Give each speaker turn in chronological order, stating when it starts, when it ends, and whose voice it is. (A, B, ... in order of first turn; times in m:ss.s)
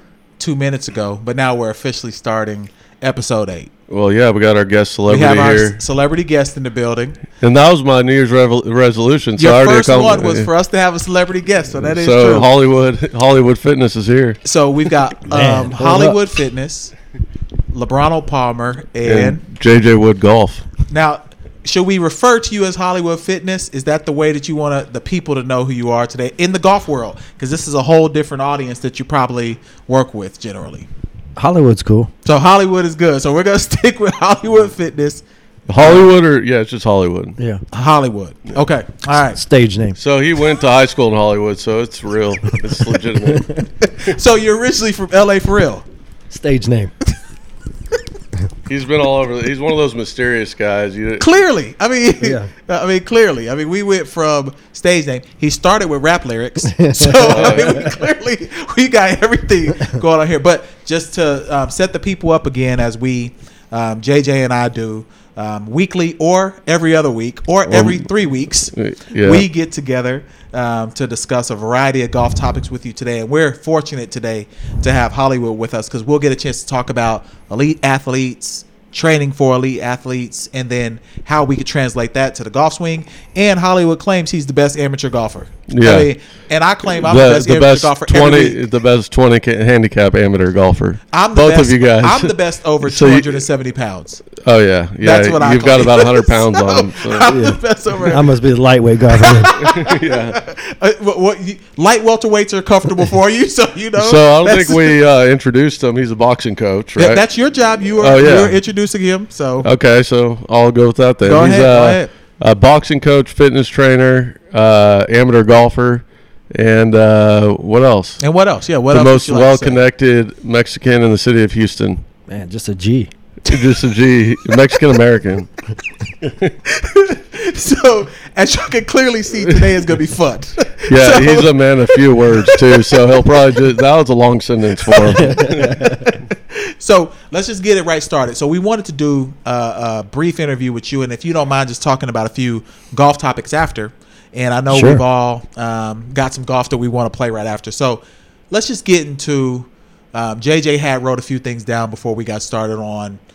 0:00.4-0:03.7 A
0:03.9-0:05.8 B
0:05.1-0:07.2 A
0:07.4-0:10.5 B
0:09.4-0:12.5 A
0:11.8-0:14.4 B
0:14.4-0:16.9 A
0:15.3-0:16.2 C
0:17.7-0:19.4 A
0:19.0-0:20.6 B
0:20.9-0:30.9 A
0:31.4-0:32.1 C
0:32.2-0:35.2 A
0:35.7-0:37.4 B
0:35.8-0:36.1 A
0:37.4-0:37.6 C
0:37.7-0:39.4 A
0:39.3-0:40.0 C
0:40.0-0:43.5 B
0:42.8-0:43.6 C
0:43.8-0:45.8 A
0:46.3-0:46.9 C
0:48.7-0:51.3 B
0:51.2-1:28.6 A
0:52.2-0:52.5 C
0:56.7-0:57.9 C
0:57.2-0:57.8 B
1:07.7-1:08.1 B
1:08.7-1:09.5 B
1:25.7-1:26.1 B
1:26.9-1:33.4 B
1:31.1-1:34.3 A
1:34.4-1:37.3 B
1:35.0-1:38.3 A
1:37.3-1:39.5 C
1:39.1-1:45.0 A
1:39.6-1:40.4 B
1:44.0-1:47.2 B
1:47.0-1:49.7 A
1:48.0-1:48.6 B
1:49.6-1:58.2 B
1:51.2-1:52.1 A
1:58.2-1:59.8 A
1:58.9-2:02.0 B
2:02.3-2:03.1 C
2:03.5-2:05.5 B
2:06.2-2:06.5 B
2:06.7-2:13.6 A
2:10.9-2:15.8 B
2:14.9-2:33.2 A
2:15.3-2:16.0 C
2:24.7-2:25.0 C